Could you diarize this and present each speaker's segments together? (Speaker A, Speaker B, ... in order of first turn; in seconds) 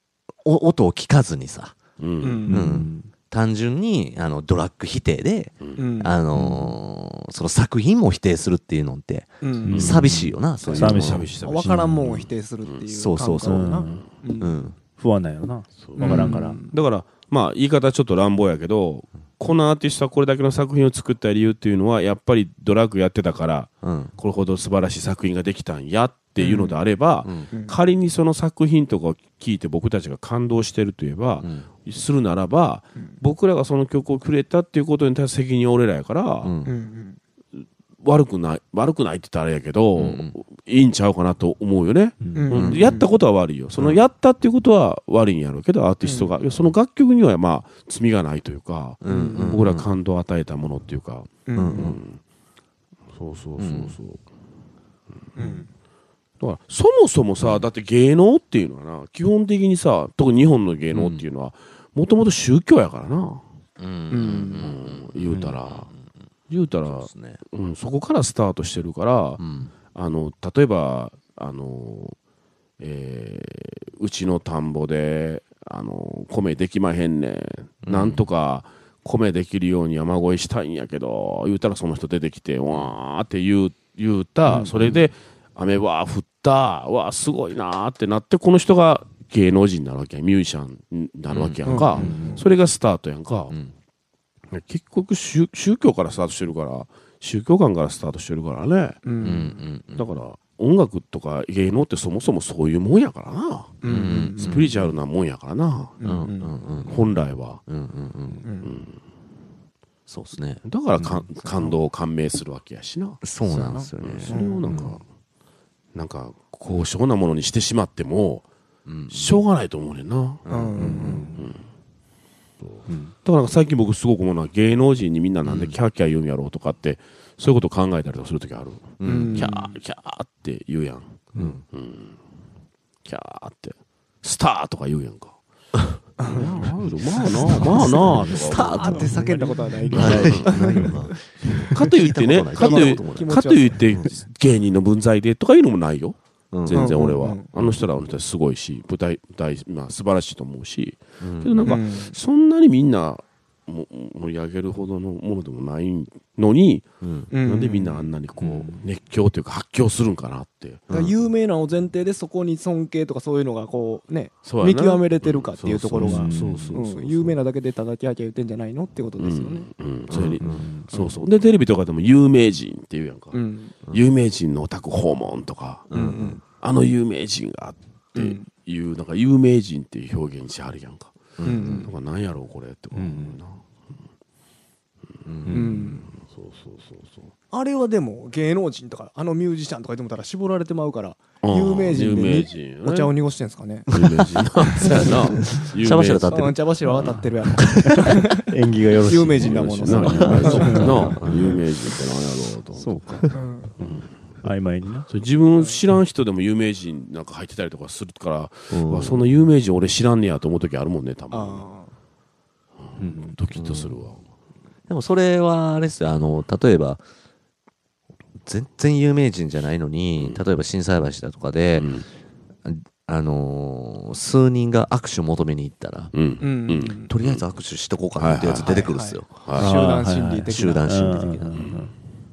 Speaker A: 0.4-1.8, 2.5-11.3, 12.9-14.8, 23.8-24.1, 27.2-27.5, 31.4-31.7, 36.4-36.7, 40.0-40.3, 42.5-43.0, 49.0-49.9, 51.5-52.0, 53.6-54.0, 57.4-57.6, 60.9-61.2, 63.8-65.9, 66.8-67.4, 69.4-69.7, 77.8-78.3, 84.7-85.1, 91.3-91.8, 99.2-100.1, 103.8-105.0, 106.0-107.1, 107.7-108.5, 110.1-110.6, 113.2-114.4, 118.8-119.4, 120.5-121.2, 125.4-125.8, 129.0-129.5, 131.3-131.6, 137.5-143.4, 146.5-147.7, 151.2-151.7, 157.0-157.3, 170.1-170.7, 175.9-176.4, 181.4-181.9, 185.2-185.6, 195.0-197.9, 200.2-201.6, 208.7-209.2, 213.5-214.0, 214.9-217.0, 218.4-221.9, 222.6-226.1, 227.1-229.5, 230.5-231.7
Speaker B: 2.0-2.5, 9.7-9.9, 10.7-12.8, 15.8-36.5, 38.0-52.2, 53.1-54.2, 56.4-63.4, 64.6-65.9, 66.5-69.4, 69.9-72.2, 72.8-93.5, 94.5-99.0, 100.0-106.0, 106.8-107.6, 108.6-109.0, 110.6-113.2, 114.0-115.0, 115.9-118.5, 119.1-121.6, 122.6-132.2, 133.0-135.4, 136.2-139.3, 139.9-140.4, 141.7-161.0, 164.4-167.4, 169.2-173.4, 173.9-183.6, 186.1-187.3, 191.4-193.1, 193.9-197.2, 199.3-203.0, 203.8-204.1, 205.1-211.7, 212.8-214.2, 221.7-222.1, 226.1-227.4, 228.2-228.9, 229.4-229.7, 231.5-231.8
Speaker C: 2.2-2.7, 5.8-6.5, 9.4-9.9, 11.4-14.6, 16.0-16.7, 26.4-26.8, 27.5-27.8, 36.6-37.2, 42.3-43.0, 46.0-46.3, 49.1-49.6, 51.5-52.0, 55.4-55.7, 64.1-64.7, 84.5-84.7, 91.7-92.5, 99.0-99.6, 103.8-104.6, 106.0-106.5, 108.4-108.8, 111.4-111.7, 113.5-114.7, 120.5-121.3, 129.0-129.8, 136.2-141.6, 142.5-143.8, 146.7-147.4, 151.6-152.2, 157.3-158.1, 160.9-169.7, 170.9-171.2, 173.3-173.7, 175.9-176.4, 178.1-178.5, 181.4-181.9, 185.5-186.1, 187.5-194.1, 194.7-195.6, 196.3-198.4, 199.1-201.5, 203.3-203.7, 211.3-211.9, 226.4-227.1, 228.6-231.2
Speaker D: 2.5-3.1, 6.3-6.7, 9.6-12.0, 13.4-13.9, 15.0-16.6, 42.2-42.5, 92.0-92.4, 111.0-111.2, 114.7-115.0, 120.8-121.5, 122.9-123.1, 139.9-140.9, 158.4-158.8, 166.0-166.8, 170.4-170.9, 182.9-183.4, 185.4-185.9, 198.5-201.3, 202.7-205.1, 213.0-213.4, 229.6-231.9